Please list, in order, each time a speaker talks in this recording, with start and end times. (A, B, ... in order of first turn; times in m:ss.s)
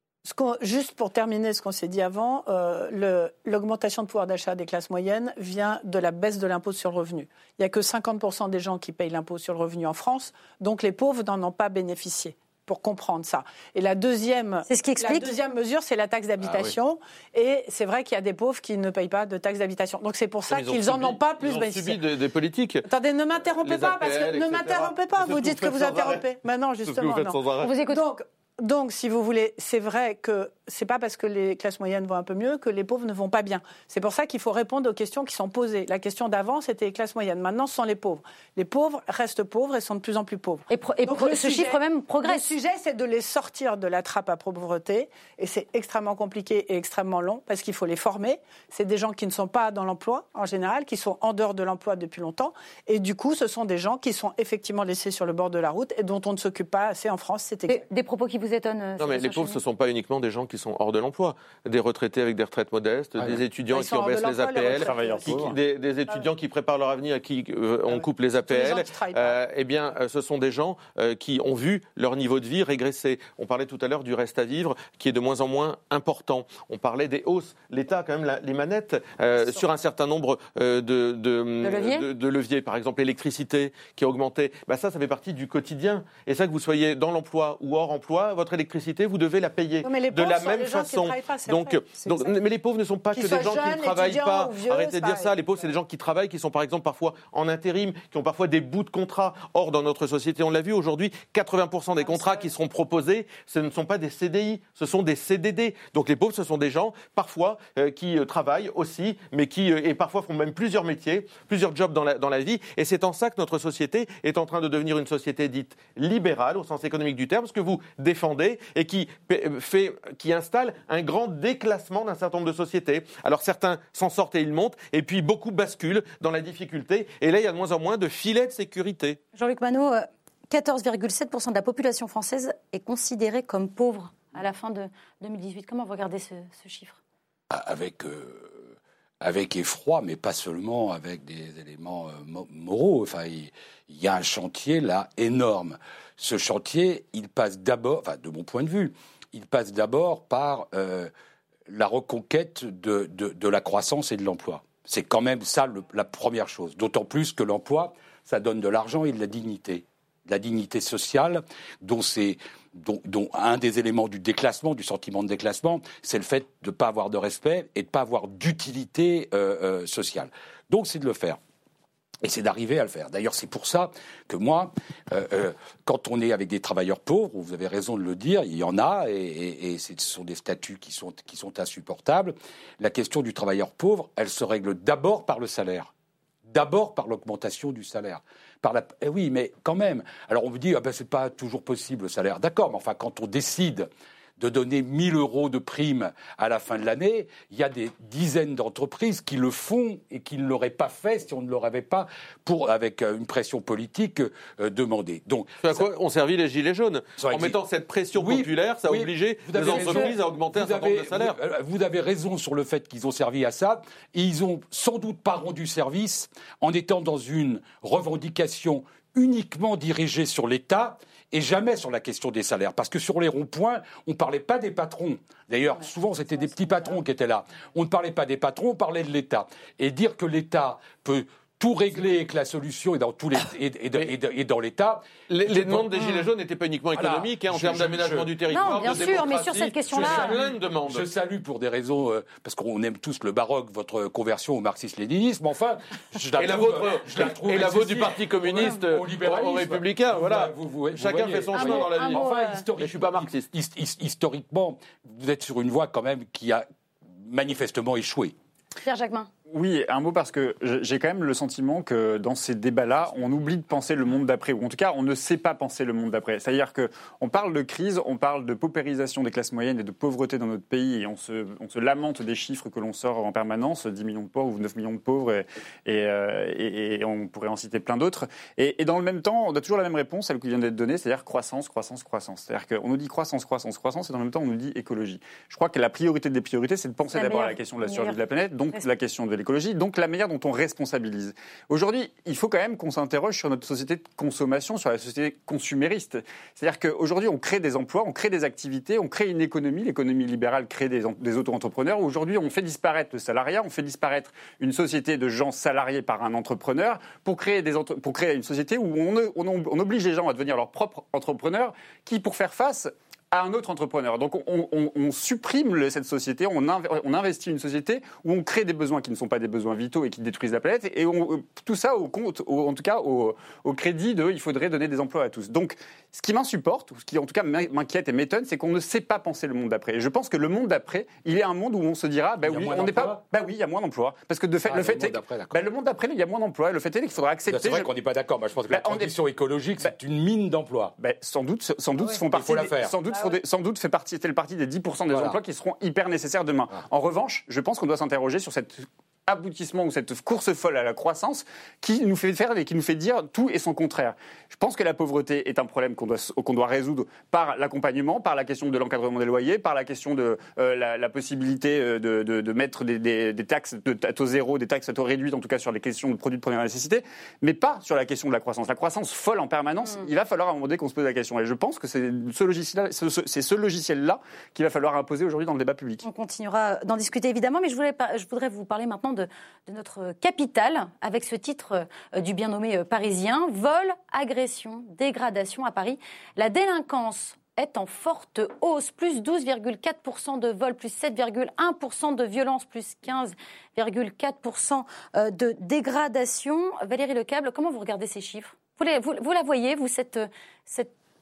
0:00.2-0:22.0 A
0:14.7-0:15.3 B
0:16.4-0:16.7 C
0:20.5-0:22.9 D
0:22.9-0:57.8 A
0:23.6-0:26.2 D
0:26.8-0:27.7 D
0:27.6-0:28.0 B
0:40.7-0:42.5 B
0:57.7-0:59.6 B
0:59.0-2:09.2 D
1:03.7-1:05.4 A
1:04.7-1:05.6 E
1:07.9-1:09.4 A
1:21.6-1:22.1 B
1:29.8-1:32.3 A
1:33.1-1:35.3 A
1:42.0-1:42.5 A
2:09.4-2:17.0 B
2:17.5-2:18.7 C
2:19.2-2:31.1 C
2:31.7-2:51.4 C
2:52.2-3:05.9 C
3:06.5-3:25.9 C
3:25.6-3:31.4 D
3:27.2-3:27.6 C
3:28.2-3:56.2 C
3:55.3-4:01.1 D
3:56.9-4:16.6 C
3:58.5-4:00.4 B
4:06.4-4:13.5 D
4:11.5-4:12.6 B
4:17.2-4:18.3 C
4:18.8-4:19.3 B
4:19.5-5:37.9 E
4:47.1-4:48.2 B
5:32.4-5:33.2 C
5:34.6-5:35.6 C
5:37.5-5:40.9 C
5:38.7-5:39.1 E
5:41.0-6:16.0 E
5:42.3-5:42.9 C
5:45.1-5:45.4 C
6:16.0-6:40.9 B